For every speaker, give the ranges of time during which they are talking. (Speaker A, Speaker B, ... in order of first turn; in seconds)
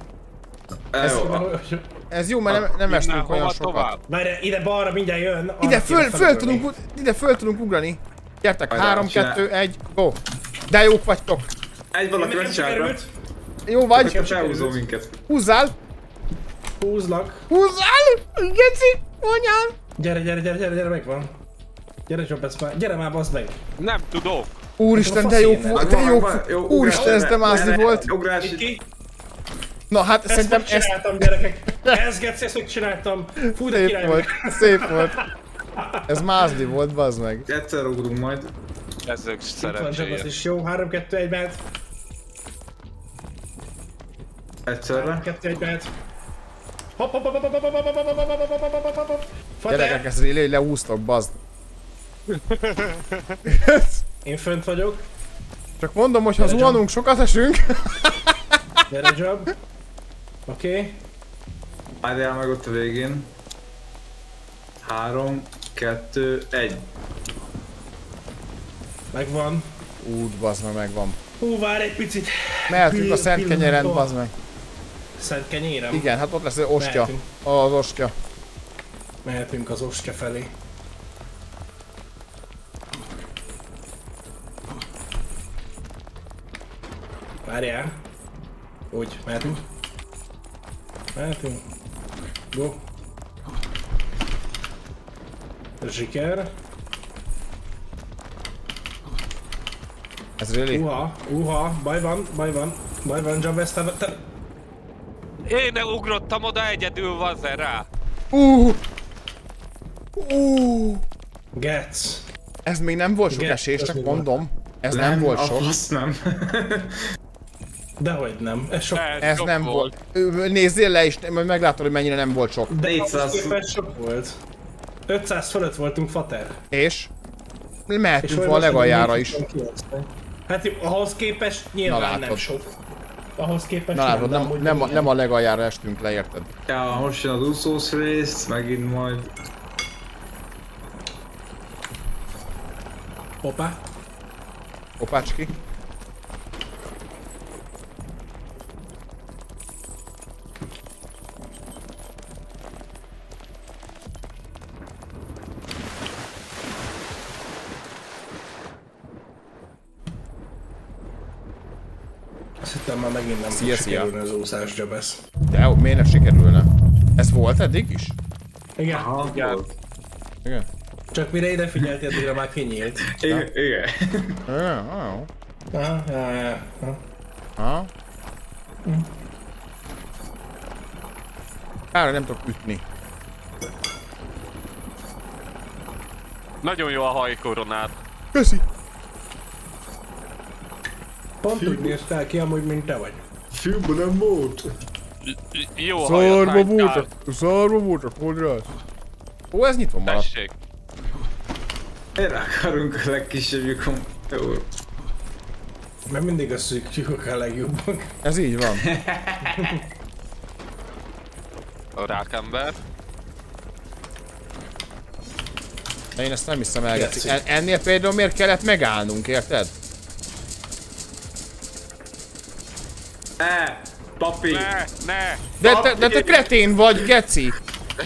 Speaker A: 0.9-1.5, 8.7-9.4, 11.9-13.0, 13.9-15.2, 25.8-28.8, 37.5-38.5, 44.7-45.3, 62.0-63.3, 64.8-66.9, 114.9-117.1, 122.8-123.6, 136.7-139.3, 168.9-169.8, 173.1-174.4, 191.5-191.9, 193.5-194.7, 202.2-204.7, 208.8-209.8, 223.4-224.7, 225.6-226.5
Speaker B: 1.0-1.4, 2.1-3.9, 5.6-11.5, 13.7-14.3, 15.3-15.8, 17.5-19.8, 24.8-28.1, 29.9-31.3, 33.5-35.2, 36.1-37.5, 49.7-51.4, 53.5-54.0, 55.8-58.8, 70.0-71.2, 72.7-74.3, 75.9-78.1, 100.4-100.8, 108.3-108.8, 110.2-111.0, 112.7-115.7, 119.2-122.7, 126.7-127.1, 127.9-129.4, 131.9-132.4, 133.9-136.5, 145.0-145.5, 163.5-164.1, 165.5-168.2, 174.5-175.3, 177.6-177.9, 181.9-182.8, 188.3-188.6, 196.0-198.7, 199.5-200.3, 208.2-208.9, 216.2-219.7, 225.6-227.6
Speaker C: 1.0-1.9, 4.1-6.7, 12.1-13.1, 14.0-14.8, 16.8-17.5, 20.0-21.3, 22.1-23.6, 24.9-26.0, 26.9-27.3, 28.4-28.8, 30.3-36.1, 39.6-41.6, 44.9-45.9, 47.0-50.1, 54.2-55.0, 56.4-56.8, 58.9-59.5, 60.5-61.0, 69.1-69.7, 71.4-74.1, 75.2-76.1, 76.8-77.2, 79.2-80.5, 87.5-88.0, 88.9-89.6, 91.2-91.6, 92.5-92.8, 95.8-96.5, 100.7-104.2, 111.6-112.3, 113.3-114.3, 118.0-119.1, 122.7-124.4, 125.1-126.6, 128.2-132.7, 133.4-135.1, 143.4-143.8, 162.6-165.2, 168.8-169.5, 171.1-173.1, 175.7-177.0, 191.4-193.2, 206.1-208.1, 209.5-209.8, 216.9-217.4
Speaker D: 2.5-4.0, 23.8-24.5, 39.1-40.3, 52.3-53.4, 105.5-107.9, 119.0-119.9, 169.2-169.6, 186.6-188.0, 195.2-197.1, 200.1-200.5, 212.0-212.8, 224.5-225.5